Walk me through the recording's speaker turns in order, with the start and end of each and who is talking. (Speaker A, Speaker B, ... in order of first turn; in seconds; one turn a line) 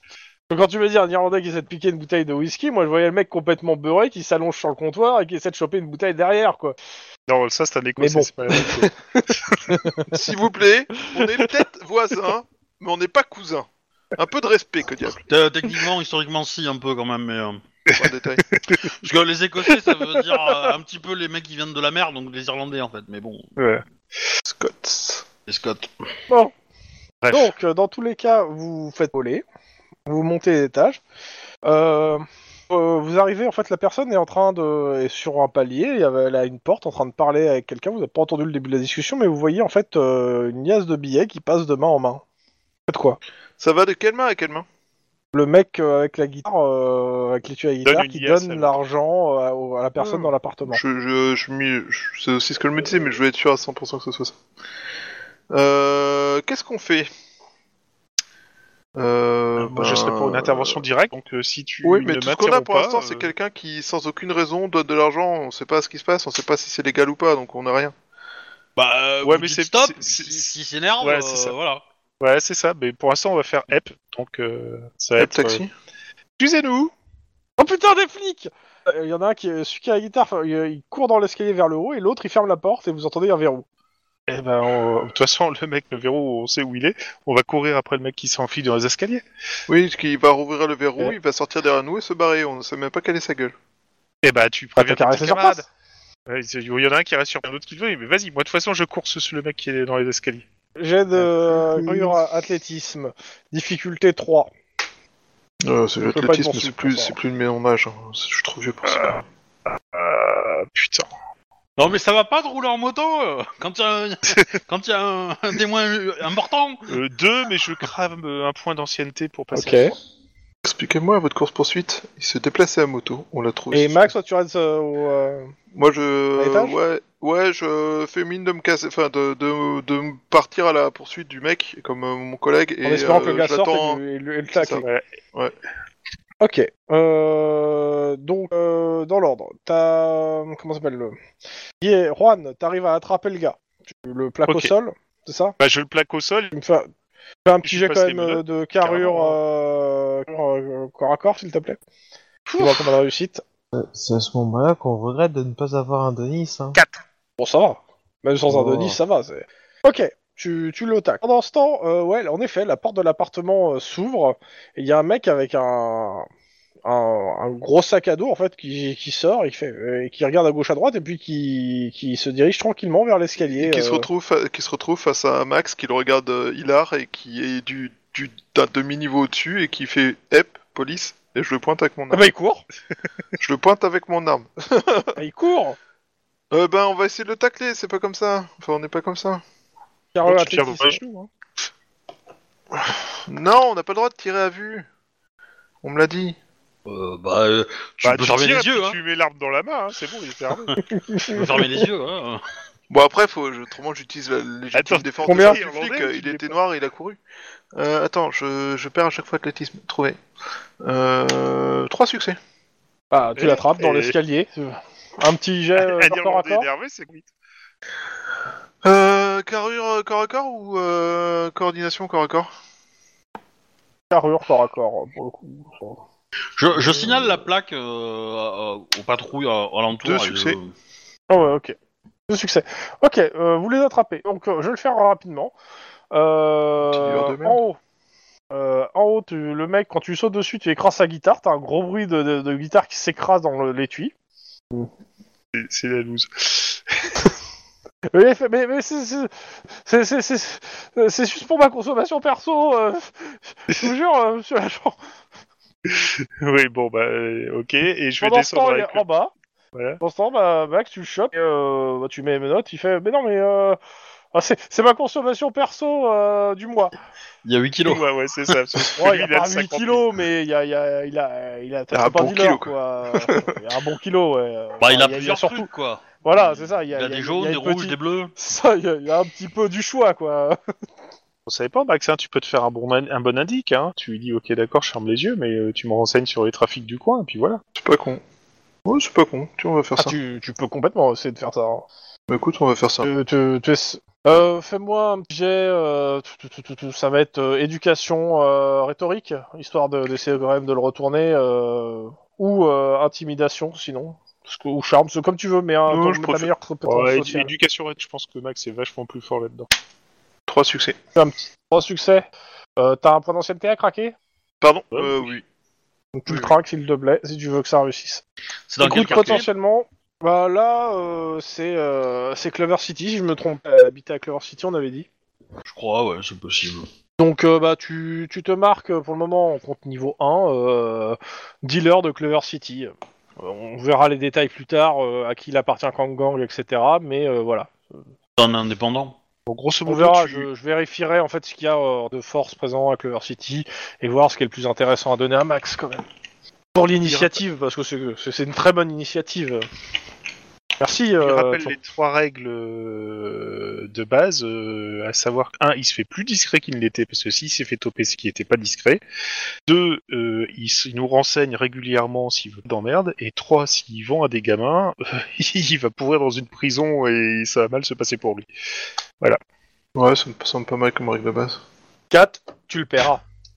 Speaker A: 0.5-6.8
Speaker B: 7.3-9.6
Speaker A: 8.0-10.2
Speaker C: 10.1-15.2
Speaker D: 15.3-17.6
Speaker B: 17.9-18.9
Speaker C: 18.0-18.4
Speaker D: 19.0-23.5
Speaker B: 23.6-23.8
Speaker C: 24.4-25.3
Speaker D: 25.5-25.9
Speaker B: 27.2-27.6
Speaker A: 27.3-29.4
Speaker A: 30.1-31.0
Speaker A: 31.6-42.2
Speaker A: 42.9-43.2
Speaker C: 43.6-44.7
Speaker A: 45.3-50.8
Speaker B: 47.9-48.8
Speaker C: 50.0-54.4
Speaker C: 55.5-57.1
Speaker C: 59.0-60.8
Speaker B: 59.6-63.3
Speaker C: 61.8-67.9
Speaker D: 68.8-71.8
Speaker B: 69.2-70.5
Speaker B: 71.0-71.5
Speaker B: 72.2-75.6
Speaker C: 75.2-75.7
Speaker B: 76.4-76.9
Speaker A: 77.6-83.7
Speaker B: 84.3-89.2
Speaker C: 89.7-93.5
Speaker B: 94.2-95.7
Speaker A: 94.8-95.7
Speaker B: 96.3-100.5
Speaker A: 100.8-104.5
Speaker C: 101.5-102.2
Speaker C: 105.6-109.2
Speaker A: 106.0-107.2
Speaker B: 108.9-109.2
Speaker B: 109.8-111.1
Speaker D: 111.8-116.9
Speaker B: 116.9-120.0
Speaker A: 119.5-119.9
Speaker C: 120.6-124.1
Speaker A: 123.7-125.5
Speaker C: 125.7-134.0
Speaker A: 126.4-126.8
Speaker A: 132.8-134.8
Speaker C: 134.6-135.5
Speaker A: 136.4-141.2
Speaker A: 141.8-145.6
Speaker B: 144.5-144.7
Speaker B: 145.6-146.5
Speaker A: 146.5-146.9
Speaker A: 147.4-151.8
Speaker B: 147.6-149.4
Speaker A: 152.6-153.4
Speaker E: 153.7-156.8
Speaker B: 156.8-157.0
Speaker A: 157.4-166.3
Speaker E: 158.5-159.0
Speaker A: 166.8-174.1
Speaker C: 173.5-182.3
Speaker A: 182.1-182.6
Speaker C: 183.4-185.1
Speaker A: 185.2-185.8
Speaker C: 186.5-189.4
Speaker A: 190.1-191.0
Speaker B: 190.3-191.3
Speaker C: 193.3-194.9
Speaker C: 195.8-196.4
Speaker D: 196.9-199.0
Speaker B: 198.0-200.8
Speaker A: 200.9-201.6
Speaker D: 201.3-202.4
Speaker C: 202.9-207.2
Speaker B: 204.7-206.6
Speaker A: 205.3-205.6
Speaker C: 207.7-210.2
Speaker C: 210.8-212.4
Speaker A: 213.1-216.7
Speaker B: 213.4-214.2
Speaker B: 215.8-217.3
Speaker C: 218.8-222.5
Speaker A: 224.1-226.0
Speaker D: 226.6-230.7
Speaker C: 230.0-230.6
Speaker A: 231.3-231.8
Speaker A: 232.3-235.5
Speaker A: 236.1-237.8
Speaker C: 236.8-237.6
Speaker A: 238.5-244.1
Speaker B: 245.5-247.3
Speaker A: 248.1-255.0
Speaker B: 255.9-259.1
Speaker A: 258.2-259.3
Speaker B: 259.8-260.0
Speaker A: 260.0-263.8
Speaker A: 264.3-266.9
Speaker D: 267.4-268.1
Speaker B: 267.9-270.1
Speaker A: 269.0-275.7
Speaker C: 271.9-273.6
Speaker D: 274.8-278.3
Speaker A: 276.2-280.6
Speaker B: 281.5-287.6
Speaker C: 287.8-288.2
Speaker C: 288.9-290.1
Speaker A: 290.0-291.9
Speaker C: 292.3-293.1
Speaker A: 293.0-307.5
Speaker C: 305.9-306.5
Speaker B: 306.9-309.7
Speaker C: 310.5-311.0
Speaker A: 311.1-312.3
Speaker A: 312.8-314.1
Speaker C: 314.6-315.4
Speaker B: 314.9-315.3
Speaker A: 316.2-318.2
Speaker D: 318.7-319.5
Speaker A: 318.8-325.1
Speaker B: 318.9-319.4
Speaker D: 325.7-326.9
Speaker A: 327.2-337.8
Speaker D: 338.4-339.2
Speaker B: 339.5-340.5
Speaker A: 339.9-346.1
Speaker A: 346.7-349.6
Speaker B: 347.0-347.4
Speaker A: 350.8-351.8
Speaker B: 351.2-359.0
Speaker B: 359.7-368.5
Speaker C: 370.0-371.6
Speaker A: 372.1-373.2